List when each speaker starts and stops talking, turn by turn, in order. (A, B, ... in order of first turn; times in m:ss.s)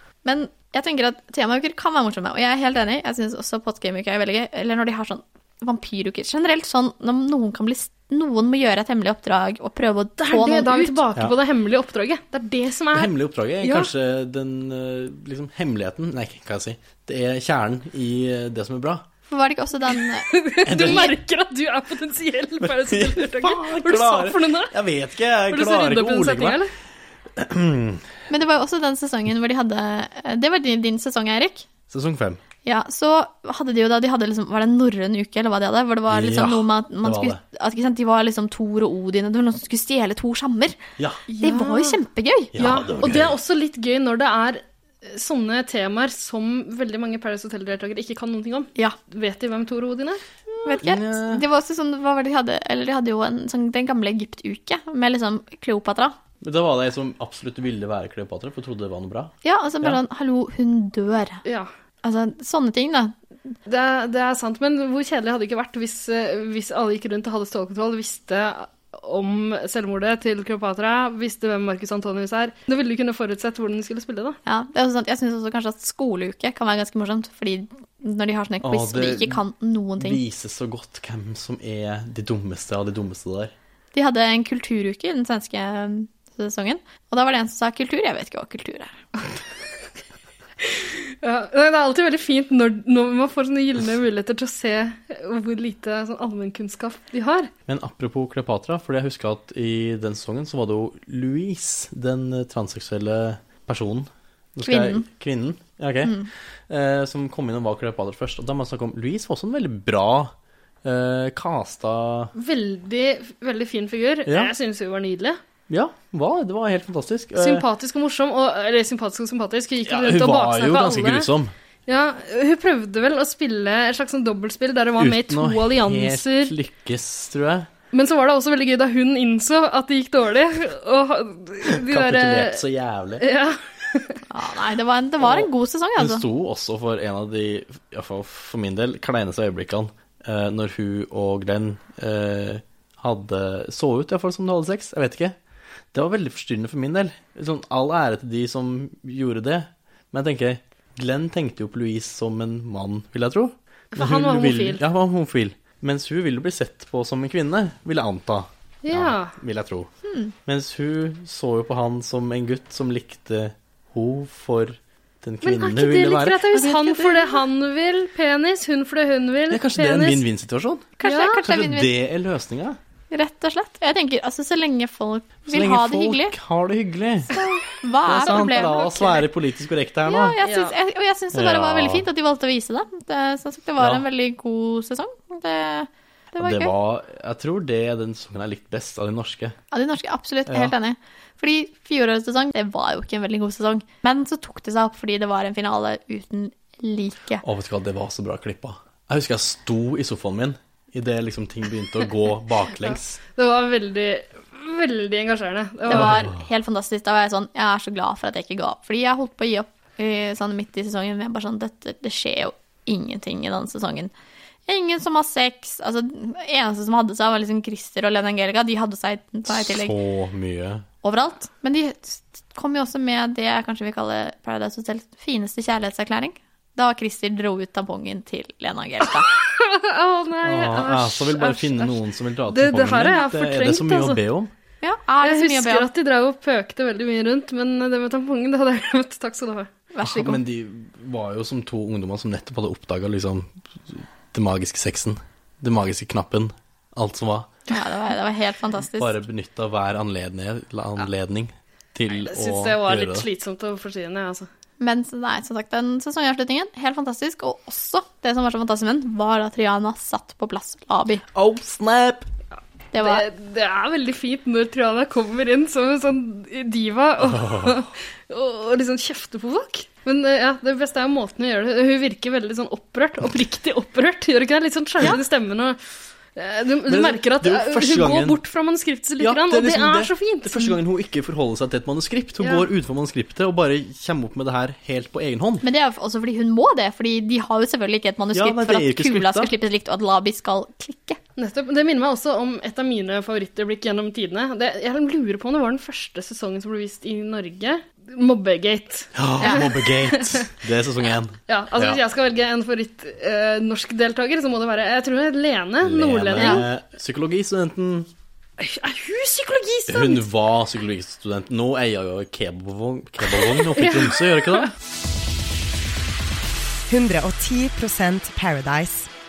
0:00.2-0:11.0 A
0:10.2-0:13.9 B
0:12.9-0:19.0 C
0:19.3-0:21.1 A
0:20.3-0:24.7 B
0:20.6-0:21.1 C
0:22.6-0:26.6 C
0:25.5-0:26.7 B
0:27.4-0:28.0 C
0:28.3-0:31.7 A
0:31.9-0:32.4 C
0:32.6-0:40.8 A
0:36.1-0:37.4 C
0:41.3-0:42.0 B
0:41.4-0:42.6 A
0:42.5-0:43.4 C
0:42.6-0:50.8 B
0:50.6-0:56.2 A
0:50.8-0:51.4 C
0:56.4-1:00.0 C
0:59.4-1:01.4 A
1:02.0-1:03.1 A
1:03.7-1:14.4 B
1:14.4-1:20.2 A
1:18.6-1:19.4 C
1:20.0-1:23.5 C
1:23.9-1:29.0 A
1:30.6-1:37.5 B
1:37.7-1:52.3 C
1:44.6-1:45.0 A
1:46.0-1:46.3 A
1:52.4-1:55.4 B
1:54.2-1:54.5 C
1:55.7-1:57.6 C
1:57.4-2:01.3 B
1:59.8-2:01.5 C
2:01.9-2:06.5 B
2:05.0-2:07.7 C
2:07.9-2:12.6 B
2:11.6-2:13.2 C
2:13.2-2:14.2 B
2:14.3-2:16.2 A
2:15.2-2:25.4 C
2:25.9-2:39.9 C
2:33.9-2:34.8 B
2:38.8-2:39.4 B
2:40.0-2:40.3 A
2:40.4-2:46.6 C
2:45.4-2:50.2 B
2:46.5-2:47.4 A
2:49.5-2:52.8 C
2:51.0-2:51.9 A
2:51.0-2:51.4 B
2:53.1-2:56.3 A
2:55.5-2:57.3 C
2:57.3-2:59.2 A
2:58.0-3:00.4 C
3:00.0-3:06.7 A
3:00.4-3:00.8 B
3:01.3-3:02.1 C
3:03.8-3:04.0 C
3:06.4-3:09.6 C
3:09.7-3:17.4 A
3:10.5-3:10.7 C
3:17.4-3:23.2 C
3:23.4-3:26.2 B
3:25.9-3:34.1 A
3:25.9-3:26.4 C
3:34.7-3:39.9 A
3:39.5-3:40.8 C
3:41.0-3:49.3 A
3:49.3-3:52.0 B
3:50.4-3:54.5 C
3:52.5-3:54.2 B
3:54.8-3:55.9 A
3:55.2-3:59.7 B
3:59.9-4:00.4 A
4:00.0-4:07.5 C
4:07.7-4:09.2 A
4:08.9-4:13.3 C
4:12.1-4:14.5 B
4:14.8-4:21.2 A
4:21.3-4:22.3 C
4:22.9-4:23.2 A
4:23.0-4:40.8 B
4:27.3-4:27.8 C
4:36.9-4:38.4 C
4:39.2-4:45.6 C
4:42.4-4:42.7 B
4:45.6-4:51.2 A
4:48.3-4:49.5 C
4:51.4-5:00.5 B
4:59.1-5:02.0 C
5:01.5-5:06.7 B
5:05.8-5:08.1 C
5:06.4-5:06.6 A
5:08.6-5:10.2 B
5:09.9-5:14.7 C
5:13.5-5:14.7 B
5:16.9-5:19.1 D